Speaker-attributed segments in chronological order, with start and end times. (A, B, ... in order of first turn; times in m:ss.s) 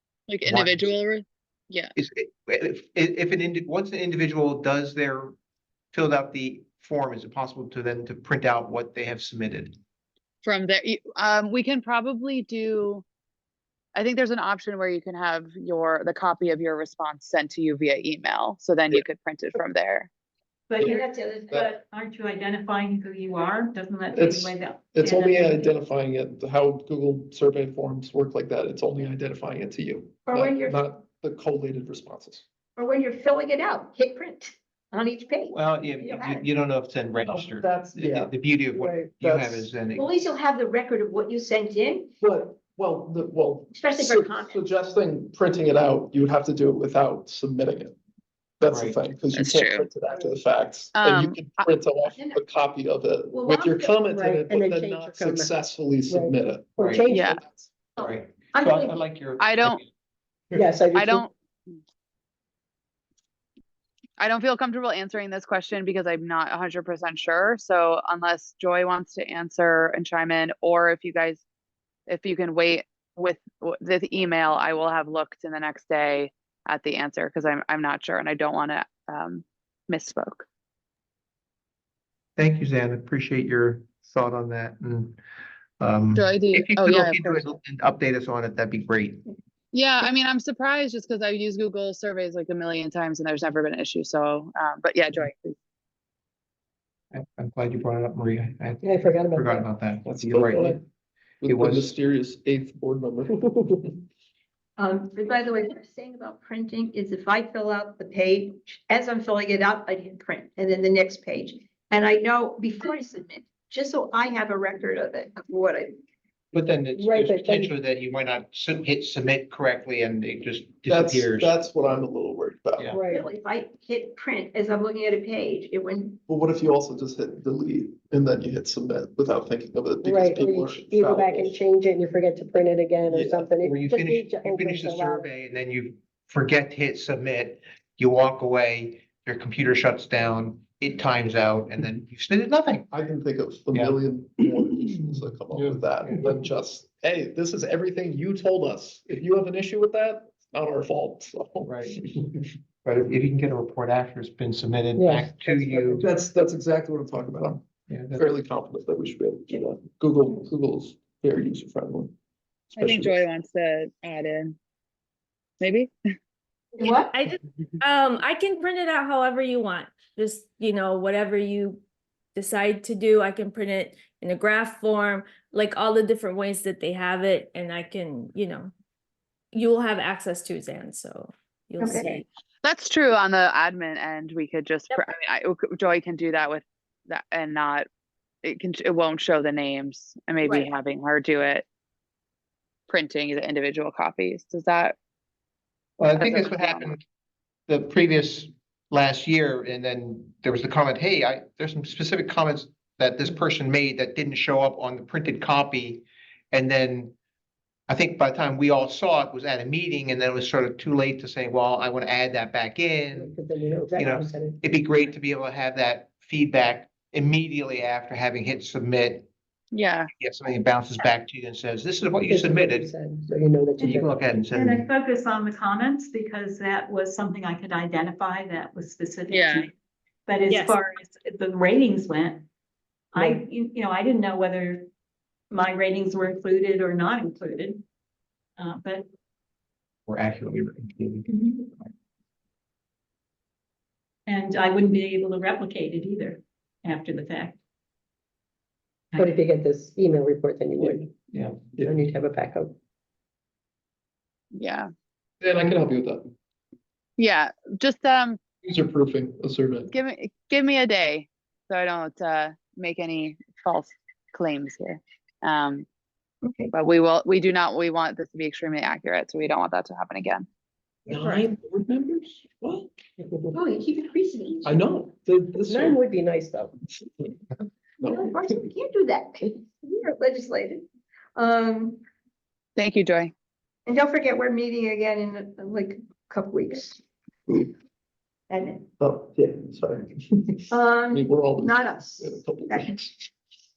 0:00.3-0:01.9 A
0:00.4-0:00.8 B
0:02.0-0:05.3 B
0:05.9-0:09.8 B
0:10.4-0:13.0 A
0:13.9-0:20.1 A
0:20.7-0:25.7 C
0:20.8-0:21.6 D
0:24.1-0:32.4 E
0:30.2-0:30.8 D
0:32.8-0:36.4 D
0:35.5-0:40.1 B
0:37.2-0:39.6 E
0:39.9-0:42.1 D
0:42.2-0:48.0 E
0:43.7-0:44.6 D
0:48.6-0:57.7 E
0:48.7-0:49.0 B
0:49.3-0:49.9 A
0:50.9-0:51.6 A
0:52.2-0:52.4 D
0:53.3-0:54.0 D
0:54.1-0:55.5 F
0:56.1-0:57.4 F
0:56.8-0:57.0 B
0:57.1-0:57.4 A
0:58.0-0:59.0 D
0:58.0-0:59.9 B
0:59.4-0:59.8 A
1:00.5-1:01.3 F
1:00.9-1:01.3 A
1:04.2-1:11.4 A
1:12.1-1:20.4 A
1:22.4-1:25.2 B
1:25.8-1:29.2 B
1:26.1-1:27.4 A
1:29.7-1:35.6 A
1:37.1-1:40.8 B
1:38.8-1:39.7 F
1:40.0-1:40.8 E
1:41.4-1:43.9 E
1:41.4-1:41.9 B
1:44.8-1:55.9 D
1:56.5-2:01.5 B
1:56.9-1:57.8 F
2:00.8-2:03.0 E
2:02.9-2:03.2 F
2:03.1-2:06.2 D
2:06.3-2:11.6 E
2:10.0-2:15.3 F
2:13.1-2:13.5 E
2:13.6-2:22.9 B
2:22.9-2:32.4 E
2:23.7-2:24.0 B
2:24.8-2:26.4 B
2:31.6-2:32.1 B
2:32.8-2:36.0 B
2:35.0-2:36.1 F
2:36.0-2:42.1 E
2:37.9-2:38.2 B
2:42.7-2:43.2 E
2:42.8-2:44.6 A
2:45.6-2:45.9 A
2:46.8-2:47.1 D
2:47.1-2:51.8 G
2:52.3-2:58.7 G
2:59.5-3:02.2 G
3:01.8-3:02.1 D
3:02.6-3:07.9 A
3:08.4-3:11.6 A
3:12.9-3:15.0 A
3:16.0-3:17.0 B
3:16.2-3:17.0 A
3:17.7-3:27.1 B
3:27.9-3:33.4 B
3:33.1-3:34.7 F
3:33.9-3:39.3 B
3:39.7-3:40.1 A
3:40.2-3:42.9 B
3:42.2-3:44.1 F
3:43.8-3:44.9 B
3:44.5-3:49.7 C
3:49.3-3:49.7 A
3:50.3-3:52.4 C
3:50.5-3:50.8 G
3:53.1-3:54.9 C
3:55.5-3:57.8 C
3:58.6-3:59.1 C
4:00.1-4:01.3 B
4:01.3-4:01.6 C
4:04.3-4:07.6 C
4:09.2-4:11.1 F
4:11.3-4:11.6 B
4:11.8-4:12.7 F
4:14.5-4:14.9 A
4:15.4-4:16.3 E
4:17.2-4:18.4 A
4:18.6-4:19.9 E
4:19.9-4:25.9 A
4:26.4-4:26.7 D
4:26.7-4:30.5 A
4:31.1-4:31.4 D
4:31.1-4:32.9 E
4:33.5-4:34.8 D
4:34.6-4:36.0 E
4:35.7-4:36.7 F
4:38.0-4:38.6 E
4:38.0-4:42.0 D
4:42.8-4:43.3 A
4:43.8-4:47.6 D
4:48.5-4:48.9 D
4:49.0-4:53.3 E
4:50.7-4:52.9 D